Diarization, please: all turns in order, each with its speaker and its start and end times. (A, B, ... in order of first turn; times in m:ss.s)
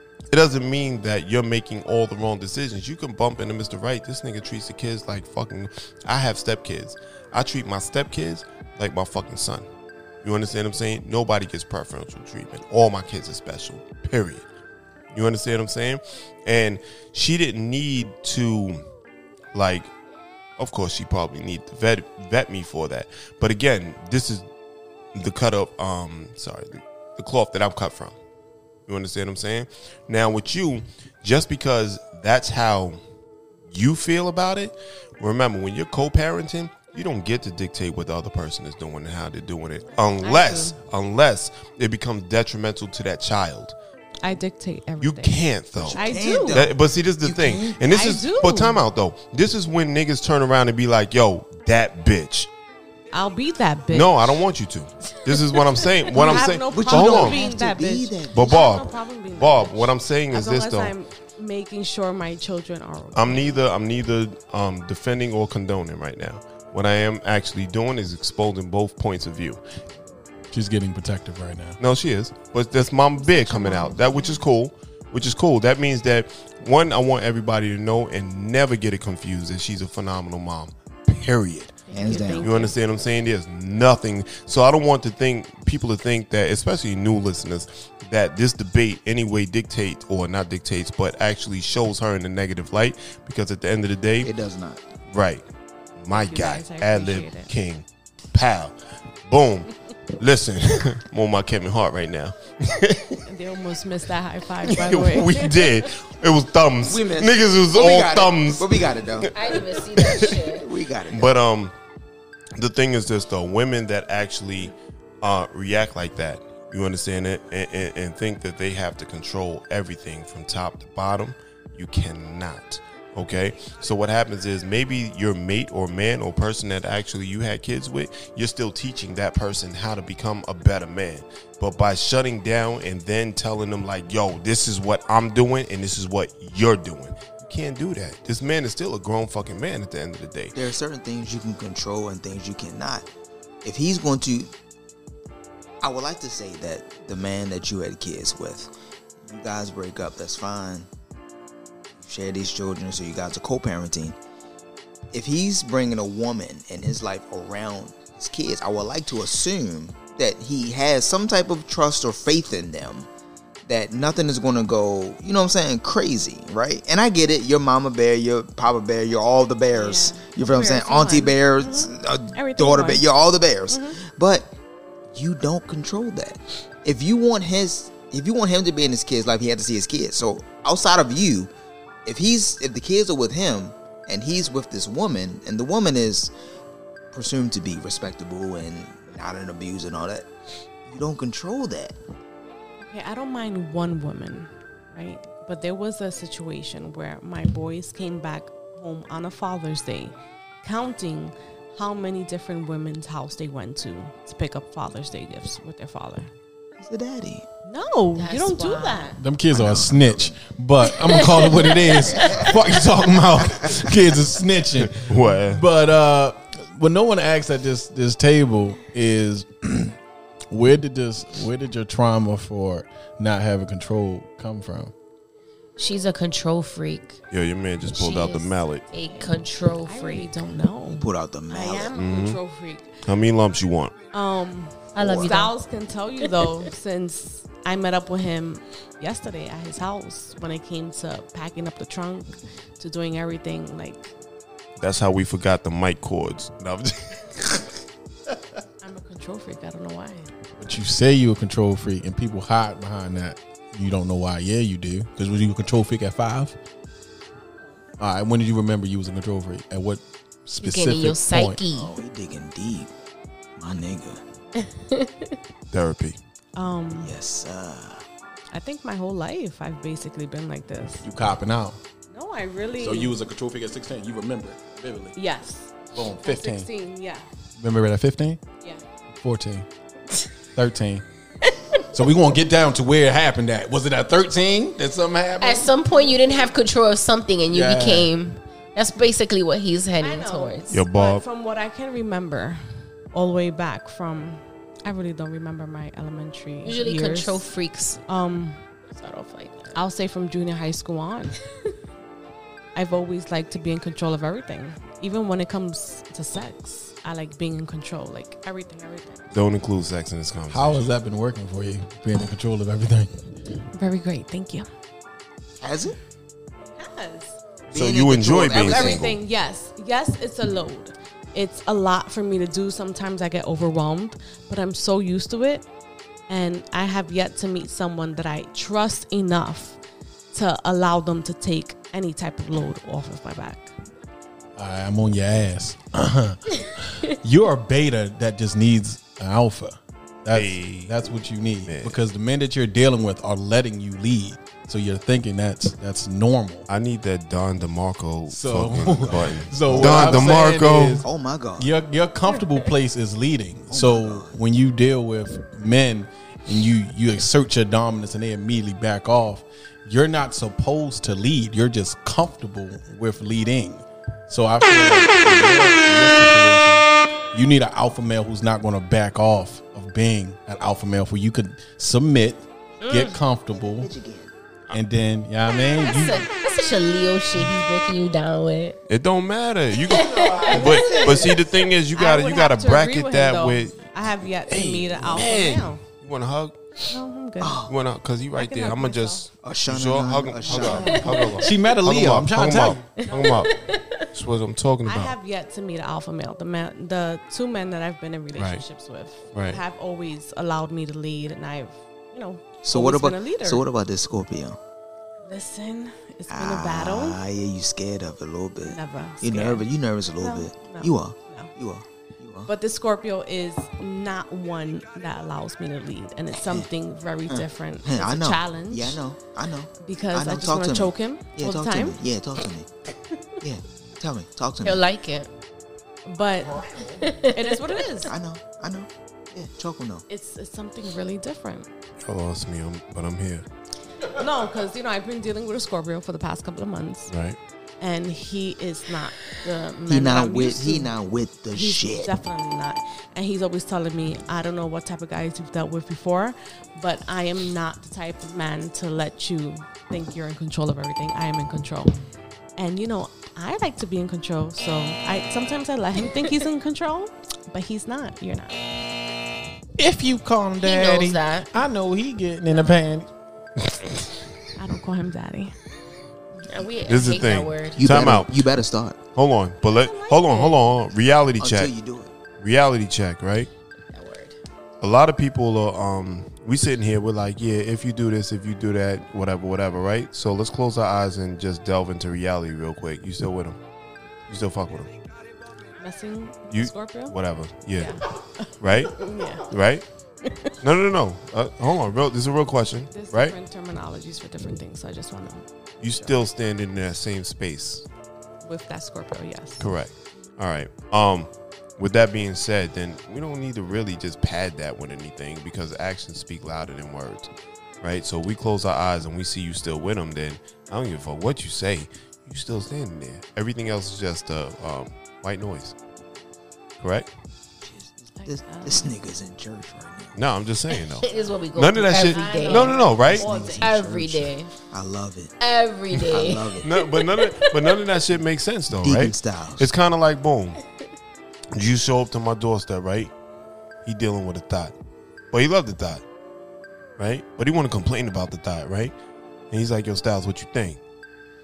0:00.3-0:09.6 A
0:10.2-0:14.4 A
0:15.1-0:18.8 A
0:19.5-0:19.9 A
0:20.6-0:24.4 A
0:25.1-0:28.2 A
0:28.9-0:33.0 A
0:33.7-0:43.8 A
0:40.2-0:40.8 B
0:44.2-0:45.4 B
0:45.0-0:52.5 A
0:45.8-0:47.8 C
0:45.9-0:46.6 B
0:47.9-0:48.8 B
0:53.1-0:54.1 B
0:53.9-0:57.4 A
0:56.1-1:03.6 B
0:56.1-0:59.0 C
0:58.3-1:00.9 A
1:03.1-1:09.6 A
1:10.5-1:11.8 D
1:11.8-1:21.8 A
1:13.2-1:14.4 B
1:21.9-1:22.7 B
1:21.9-1:22.5 C
1:22.4-1:34.3 A
1:34.2-1:34.8 C
1:35.1-1:35.4 A
1:36.0-1:43.2 A
1:36.1-1:37.5 B
1:43.2-1:45.6 B
1:44.6-1:50.4 A
1:46.9-1:49.3 C
1:49.3-1:50.7 E
1:50.0-1:51.3 C
1:51.1-1:51.7 A
1:52.6-2:20.6 A
2:20.5-2:23.1 C
2:23.6-2:24.5 C
2:25.8-2:28.7 C
2:29.2-2:30.9 C
2:31.9-2:34.2 C
2:35.1-2:43.1 C
2:43.7-2:54.5 C
2:49.7-2:53.0 B
2:53.7-2:54.0 B
2:55.1-3:01.5 C
3:02.0-3:06.3 C
3:07.1-3:10.3 C
3:10.8-3:12.0 C
3:12.8-3:26.3 B
3:26.8-3:27.4 C
3:27.6-3:29.2 B
3:28.1-3:29.1 E
3:29.2-3:40.0 D
3:29.5-3:30.4 C
3:31.0-3:32.5 E
3:34.8-3:35.6 A
3:40.5-3:44.9 D
3:45.8-3:47.2 E
3:47.3-3:48.8 A
3:47.9-3:50.4 E
3:49.0-3:53.0 B
3:50.9-3:51.9 C
3:51.9-3:52.4 A
3:53.0-3:53.9 A
3:54.1-4:04.1 B
3:54.9-3:55.5 E
3:55.0-3:55.3 C
4:04.8-4:07.8 A
4:08.8-4:10.3 B
4:10.6-4:16.6 D
4:18.0-4:21.6 D
4:20.6-4:21.9 E
4:21.7-4:22.9 C
4:23.6-4:24.2 C
4:24.6-4:25.3 E
4:25.7-4:26.2 A
4:26.6-4:27.1 B
4:26.9-4:28.0 C
4:28.5-4:31.1 B
4:31.0-4:31.8 D
4:32.1-4:33.2 B
4:32.8-4:35.2 D
4:35.2-4:37.2 B
4:35.9-4:36.7 D
4:37.6-4:38.4 D
4:39.1-4:39.6 D
4:40.5-4:41.0 D
4:41.9-4:45.7 D
4:45.4-4:50.8 E
4:46.0-4:46.3 B
4:47.5-4:48.1 D
4:50.0-4:52.6 B
4:50.7-4:51.2 A
4:53.1-4:57.5 B
4:56.6-4:58.0 E
4:58.1-4:58.6 B
4:58.9-4:59.8 E
4:59.7-5:01.4 B
5:02.7-5:09.2 B
5:09.3-5:10.8 A
5:10.5-5:13.2 D
5:13.7-5:14.7 B
5:15.6-5:16.0 C
5:16.8-5:17.4 B
5:17.7-5:19.1 C
5:17.7-5:19.2 A
5:18.5-5:25.7 B
5:26.3-5:29.8 B
5:30.3-5:33.7 B
5:34.6-5:46.7 D
5:40.3-5:41.1 A
5:41.6-5:42.0 A
5:46.7-5:51.0 A
5:48.3-6:13.9 D
5:49.6-5:50.4 C
5:51.0-5:51.7 C
5:53.7-5:54.4 C
6:12.8-6:13.2 E
6:13.5-6:14.3 C
6:14.7-6:16.3 D
6:15.5-6:18.8 E
6:18.9-6:23.9 A
6:19.9-6:20.8 E
6:19.9-6:21.4 D
6:20.9-6:21.3 B
6:21.9-6:25.8 B
6:24.5-6:25.5 D
6:25.0-6:26.6 A
6:26.9-6:27.6 B
6:27.4-6:27.7 C
6:27.6-6:33.6 A
6:28.3-6:29.3 B
6:29.4-6:31.3 C
6:30.5-6:32.9 D
6:33.0-6:34.1 E
6:33.0-6:33.4 B
6:34.1-6:35.1 A
6:34.8-6:43.6 B
6:38.3-6:38.6 A
6:39.3-6:39.6 A
6:42.6-6:44.6 C
6:45.2-6:47.2 B
6:46.3-6:52.5 C
6:48.6-6:49.6 B
6:50.2-6:51.5 B
6:52.5-6:59.0 B
6:56.3-6:56.7 C
6:57.3-7:02.7 C
6:59.8-7:02.0 B
7:03.4-7:04.8 C
7:04.6-7:05.3 E
7:06.0-7:06.7 B
7:07.0-7:07.8 E
7:07.3-7:08.1 B
7:08.0-7:10.0 C
7:10.1-7:11.7 B
7:12.0-7:13.4 A
7:14.1-7:17.1 B
7:17.1-7:17.4 A
7:17.8-7:20.9 B
7:19.9-7:22.1 C
7:21.5-7:32.0 B
7:32.6-7:38.6 B
7:39.8-7:43.1 D
7:40.6-7:41.5 E
7:43.7-7:44.0 A
7:44.6-7:45.5 B
7:46.4-7:48.1 E
7:46.8-7:48.5 A
7:47.8-7:49.0 C
7:49.1-7:51.7 A
7:49.8-7:50.6 B
7:51.4-7:52.1 C
7:52.4-7:53.5 A
7:53.9-7:54.3 E
7:54.8-8:03.6 A
8:04.3-8:04.9 A
8:05.8-8:07.1 B
8:06.5-8:08.0 A
8:07.8-8:09.4 B
8:08.6-8:09.8 A
8:10.2-8:10.5 B
8:10.6-8:13.4 A
8:12.9-8:16.1 B
8:15.8-8:17.8 A
8:18.4-8:19.7 B
8:19.6-8:35.7 A
8:36.8-8:37.1 A
8:37.6-8:40.2 C
8:38.2-8:38.9 B
8:40.1-8:43.2 A
8:41.0-8:44.5 E
8:42.0-8:43.7 B
8:43.1-8:45.3 C
8:45.4-8:47.6 E
8:46.0-8:46.7 C
8:46.6-8:50.6 A
8:48.8-8:49.7 C
8:51.5-8:53.1 A
8:53.8-8:54.7 A
8:55.3-8:56.0 A
8:57.0-8:58.9 A
8:59.5-9:00.8 A